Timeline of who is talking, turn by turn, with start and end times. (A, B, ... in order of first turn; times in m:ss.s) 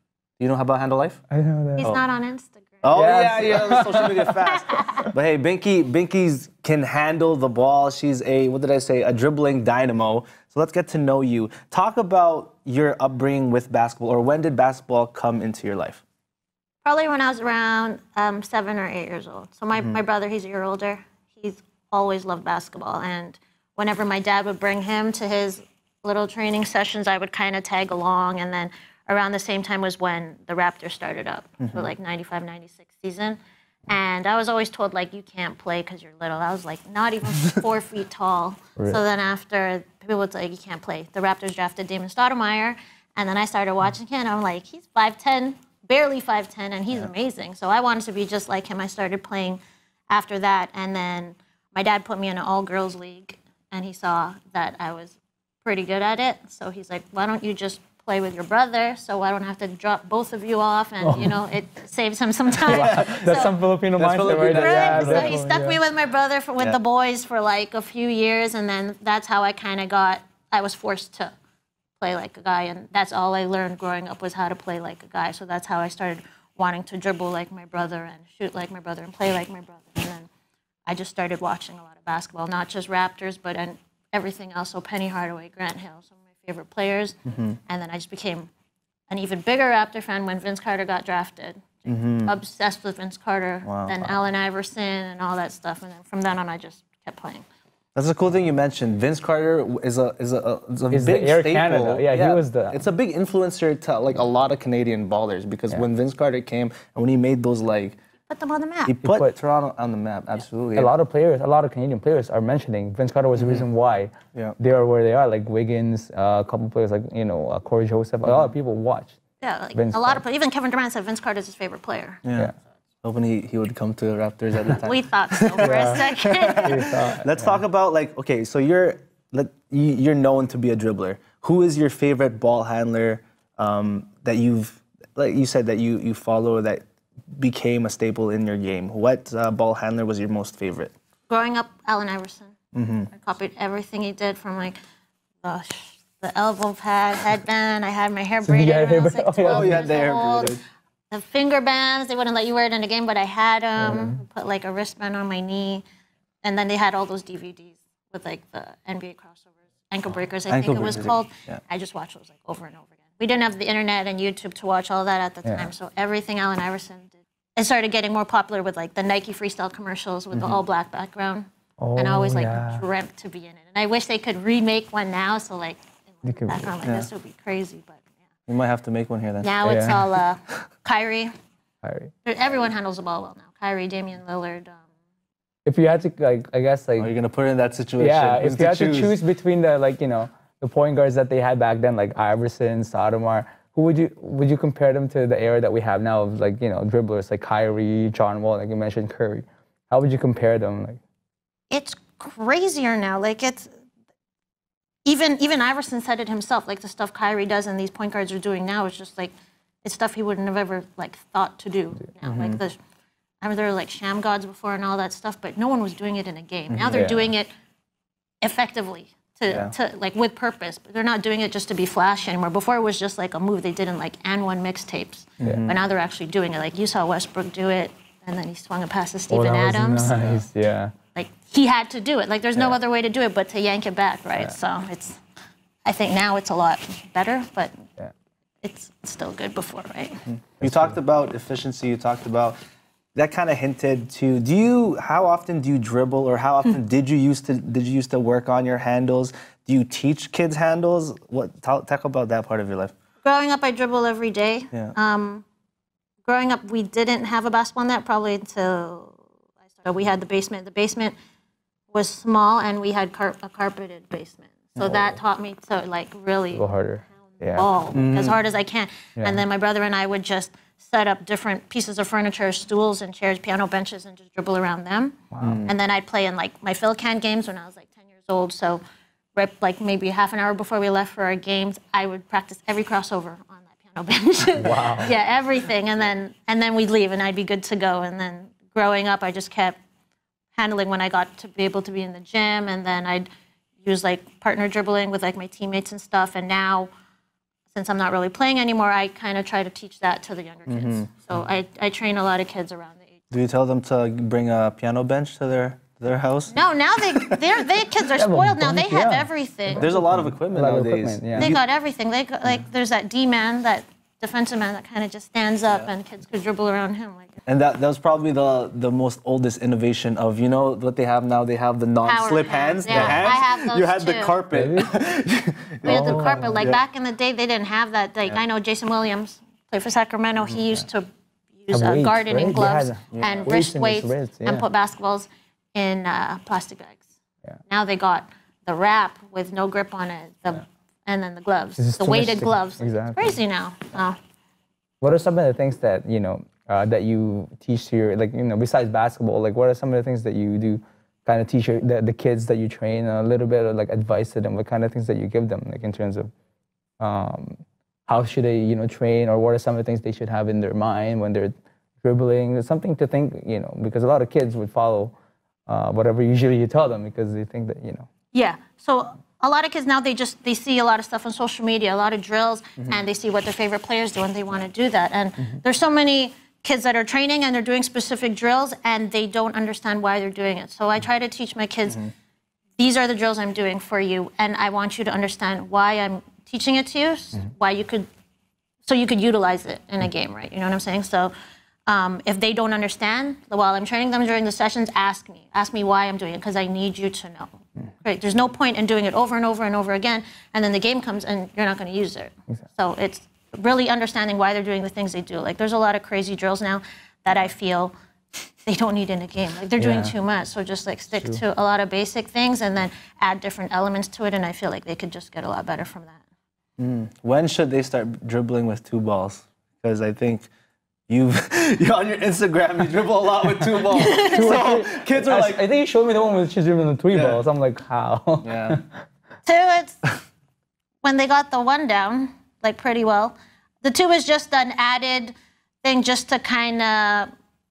0:00.4-0:01.2 A
0:01.3-0:02.0 B
0:01.8-0:03.2 C
0:02.8-0:16.0 A
0:02.9-0:04.4 B
0:04.5-0:05.0 C
0:16.8-1:03.6 C
0:31.6-0:31.9 A
1:01.0-1:01.4 B
1:02.7-1:03.4 A
1:02.7-1:05.8 B
1:04.0-1:05.4 A
1:04.3-1:11.3 C
1:12.0-1:20.3 C
1:20.9-1:28.5 C
1:27.3-1:27.6 A
1:29.1-1:37.4 C
1:31.9-1:32.3 A
1:33.6-1:34.1 A
1:38.0-1:48.0 A
1:40.9-1:42.8 B
1:48.3-1:48.9 C
1:48.9-1:50.9 A
1:49.0-1:49.4 B
1:50.8-1:59.2 B
1:58.3-1:58.5 A
1:59.4-2:02.2 C
1:59.7-2:00.2 B
2:02.2-2:02.5 A
2:03.0-2:20.9 A
2:04.8-2:06.9 C
2:05.6-2:06.0 B
2:06.6-2:07.6 B
2:21.3-2:22.6 C
2:22.7-2:23.1 A
2:23.1-2:24.8 C
2:25.4-2:30.6 C
2:28.4-2:29.9 B
2:29.4-2:30.6 A
2:31.1-2:35.8 C
2:33.8-2:34.2 B
2:36.4-2:58.0 C
2:40.5-2:41.6 A
2:50.3-2:50.6 A
2:51.8-2:52.8 B
2:56.2-2:56.7 B
2:58.5-2:59.5 A
2:59.4-3:01.3 C
2:59.6-3:00.0 B
3:01.8-3:02.1 B
3:02.2-3:04.8 C
3:05.6-3:07.1 B
3:07.0-3:09.2 A
3:08.0-3:21.0 B
3:21.7-3:23.7 C
3:25.0-3:32.8 C
3:32.2-3:32.6 A
3:33.4-3:37.5 C
3:36.7-3:37.1 A
3:36.9-3:37.3 B
3:38.4-3:50.4 C
3:45.4-3:45.7 A
3:45.4-3:45.7 B
3:49.3-3:50.9 B
3:51.1-3:55.2 C
3:55.8-3:57.8 C
3:58.6-4:00.2 C
4:00.6-4:02.6 A
4:00.6-4:01.0 B
4:03.2-4:12.9 A
4:13.2-4:15.4 C
4:16.2-4:19.2 C
4:19.7-4:21.2 C
4:21.9-4:26.7 C
4:24.8-4:25.2 A
4:26.5-4:27.7 B
4:27.4-4:38.8 C
4:27.9-4:28.4 A
4:29.2-4:29.4 B
4:35.3-4:35.6 B
4:35.4-4:35.7 A
4:39.4-4:49.8 C
4:44.6-4:45.1 B
4:50.6-4:53.3 C
4:53.8-4:56.9 C
4:57.7-5:03.2 C
5:00.7-5:01.1 A
5:03.3-5:06.5 A
5:06.5-5:09.9 C
5:08.2-5:11.6 B
5:09.8-5:11.6 A
5:11.4-5:17.4 C
5:17.5-5:26.8 A
5:22.0-5:24.4 C
5:22.9-5:23.2 B
5:24.5-5:24.9 B
5:25.8-5:37.1 C
5:25.8-5:26.7 B
5:31.7-5:34.6 B
5:33.1-5:33.5 A
5:37.7-5:44.2 C
5:41.8-5:43.4 B
5:45.0-5:56.3 B
5:57.0-6:05.2 B
6:05.7-6:08.1 B
6:08.3-6:22.0 C
6:22.8-6:28.1 C
6:28.8-6:31.3 C
6:31.9-6:47.9 C
6:48.6-6:56.2 C
6:49.8-6:50.1 B
6:56.8-7:00.5 A
7:01.1-7:05.6 A
7:03.9-7:04.6 C
7:04.1-7:08.8 B
7:07.1-7:07.4 A
7:08.4-7:08.8 A
7:09.4-7:10.0 C
7:11.0-7:17.3 C